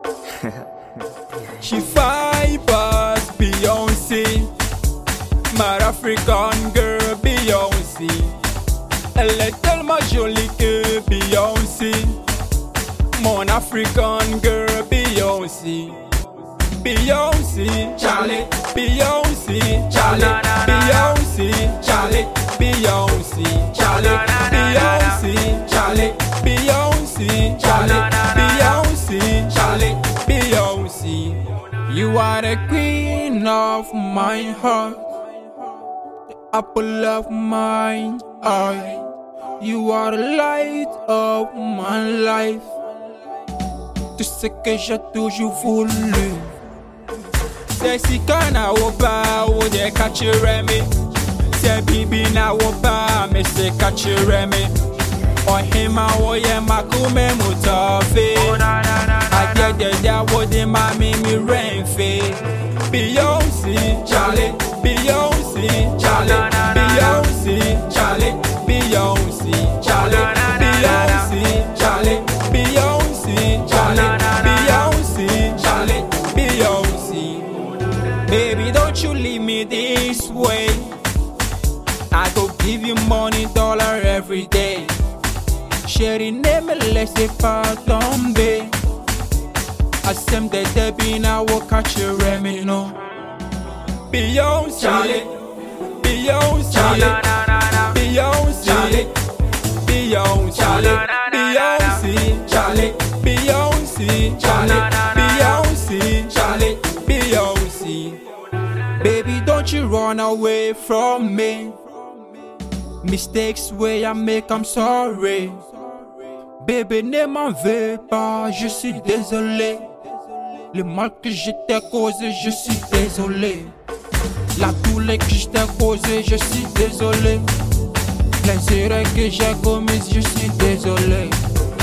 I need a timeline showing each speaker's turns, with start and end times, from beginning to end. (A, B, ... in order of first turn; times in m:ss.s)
0:01.5-0:04.5 A
0:05.5-0:08.4 A
0:09.1-0:12.2 A
0:13.1-0:16.1 A
0:16.6-0:35.2 A
0:36.3-0:42.7 A
0:44.2-0:46.6 A
0:47.6-1:21.0 A
1:22.1-1:25.0 A
1:25.8-1:28.8 A
1:30.0-1:33.0 A
1:34.1-1:51.9 A
1:53.0-1:55.8 A
1:56.5-2:00.0 A
2:00.5-2:03.8 A
2:04.5-2:07.6 A
2:08.4-2:11.4 A